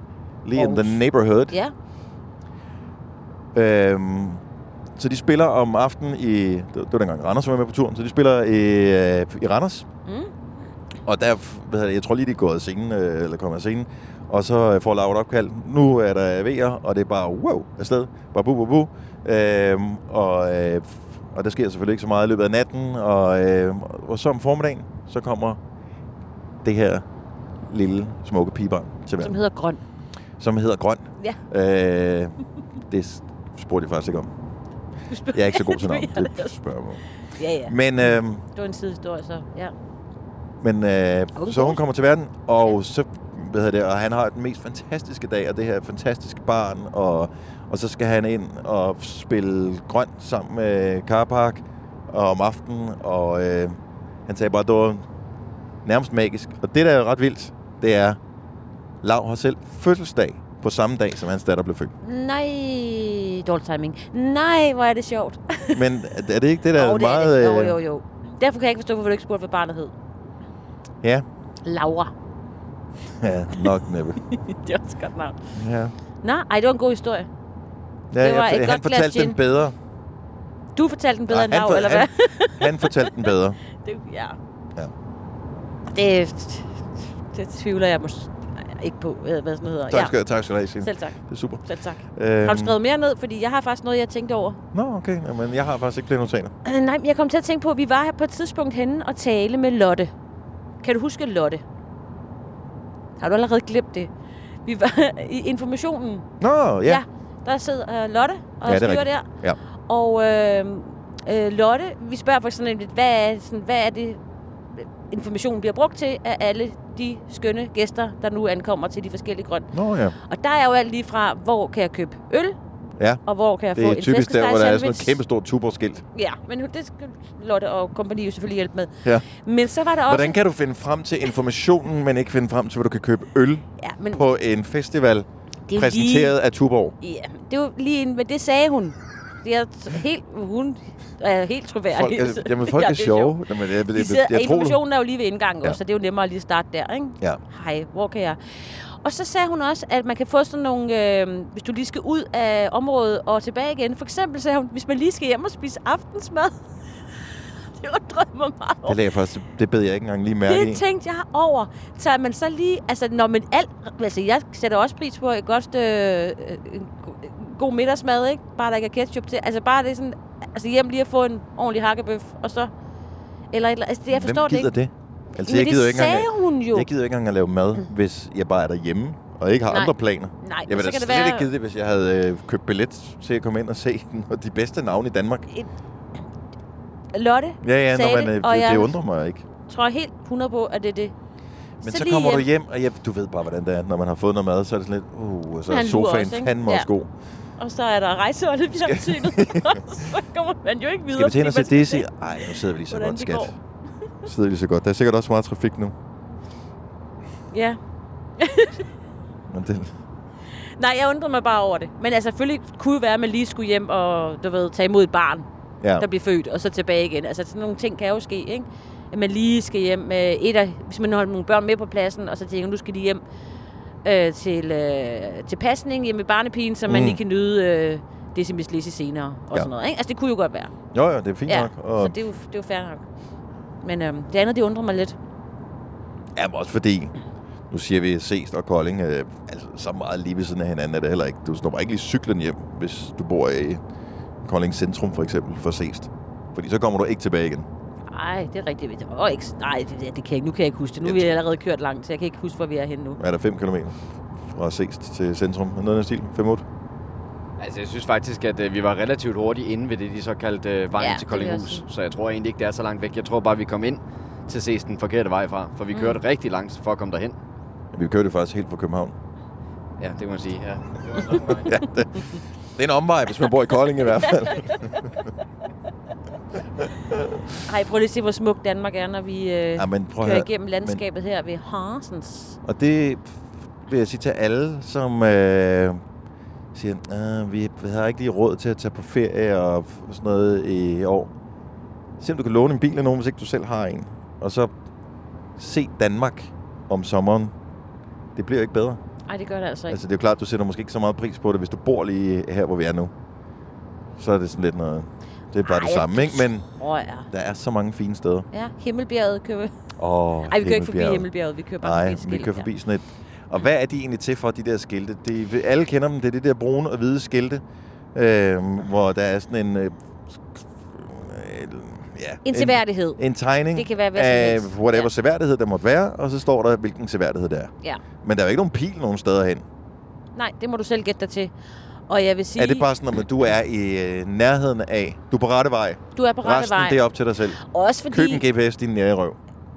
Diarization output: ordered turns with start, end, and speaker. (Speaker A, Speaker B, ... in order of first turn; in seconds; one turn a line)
Speaker A: 0.4-1.6
Speaker B: 0.6-1.7
Speaker A: 3.5-4.4
Speaker A: 5.0-9.9
Speaker B: 10.1-10.3
Speaker A: 11.1-25.6
Speaker A: 26.6-27.1
Speaker A: 27.6-29.4
Speaker B: 29.2-29.8
Speaker A: 30.4-32.4
Speaker A: 32.9-34.3
Speaker B: 35.1-36.6
Speaker A: 35.3-37.0
Speaker B: 37.4-39.7
Speaker A: 37.7-38.4
Speaker A: 40.6-55.0
Speaker B: 41.4-41.8
Speaker A: 55.8-58.2
Speaker A: 59.0-61.9
Speaker B: 62.0-65.8
Speaker A: 65.7-67.8
Speaker B: 66.8-69.9
Speaker B: 71.7-72.1
Speaker A: 73.2-74.2
Speaker B: 74.3-75.4
Speaker A: 75.5-75.9
Speaker B: 76.2-77.3
Speaker A: 78.1-79.8
Speaker B: 78.2-79.4
Speaker B: 80.8-83.2
Speaker A: 81.3-83.6
Speaker B: 83.7-84.4
Speaker B: 85.9-86.8
Speaker B: 87.3-90.2
Speaker A: 89.9-91.6
Speaker B: 90.8-94.6
Speaker A: 92.2-92.8
Speaker A: 94.7-96.5
Speaker B: 96.7-100.1
Speaker B: 100.8-101.6
Speaker B: 103.2-104.1
Speaker B: 104.7-106.3
Speaker A: 106.4-107.0
Speaker B: 106.8-109.3
Speaker A: 108.7-109.6
Speaker B: 109.9-114.2
Speaker B: 114.8-119.7
Speaker A: 119.7-120.2
Speaker B: 120.2-122.6
Speaker B: 123.2-125.2
Speaker A: 123.8-126.0
Speaker B: 126.2-130.4
Speaker A: 130.1-136.9
Speaker B: 133.8-134.2
Speaker B: 135.7-136.3
Speaker B: 137.0-143.4
Speaker A: 141.9-144.8
Speaker B: 143.9-156.6
Speaker B: 157.3-159.0
Speaker A: 158.9-160.8
Speaker B: 160.5-172.7
Speaker B: 173.5-174.7
Speaker A: 174.1-185.5
Speaker B: 175.5-176.9
Speaker B: 179.7-181.5
Speaker B: 187.1-188.9
Speaker A: 187.6-189.5
Speaker B: 189.7-191.1
Speaker B: 191.8-192.5
Speaker A: 191.8-197.1
Speaker B: 195.7-196.9
Speaker B: 197.6-202.1
Speaker A: 198.7-199.8
Speaker A: 201.1-203.6
Speaker B: 202.9-203.6
Speaker A: 204.2-205.9
Speaker B: 207.5-207.8
Speaker B: 208.4-208.8
Speaker A: 209.5-209.9
Speaker B: 210.8-215.5
Speaker A: 215.8-216.1
Speaker B: 216.0-223.2
Speaker B: 224.0-230.7
Speaker A: 226.9-227.2
Speaker A: 230.9-232.2
Speaker B: 231.5-233.0
Speaker B: 233.8-235.2
Speaker A: 236.3-237.1
Speaker A: 237.7-243.8
Speaker A: 244.4-247.7
Speaker B: 248.1-253.2
Speaker A: 251.0-251.3
Speaker A: 253.2-256.6
Speaker C: 257.6-267.4
Speaker B: 261.0-261.8
Speaker B: 265.9-266.2
Speaker A: 267.9-269.1
Speaker C: 270.0-271.7
Speaker A: 271.5-274.9
Speaker B: 274.2-274.7
Speaker A: 277.1-277.4
Speaker B: 277.7-282.6
Speaker A: 279.8-281.0
Speaker A: 282.6-286.0
Speaker A: 286.7-291.3
Speaker A: 292.2-294.7
Speaker A: 295.6-297.5
Speaker A: 298.4-299.0
Speaker B: 299.3-300.0
Speaker A: 299.9-303.1
Speaker A: 304.2-306.7
Speaker B: 305.6-307.3
Speaker A: 307.3-308.5
Speaker B: 308.5-309.7
Speaker A: 310.0-311.3
Speaker B: 310.5-312.7
Speaker A: 311.8-317.6
Speaker A: 318.1-327.7
Speaker B: 322.4-323.2
Speaker B: 323.7-325.1
Speaker A: 328.2-329.6
Speaker B: 330.4-331.5
Speaker B: 332.1-332.9
Speaker A: 332.6-339.4
Speaker B: 336.1-337.0
Speaker B: 337.6-338.4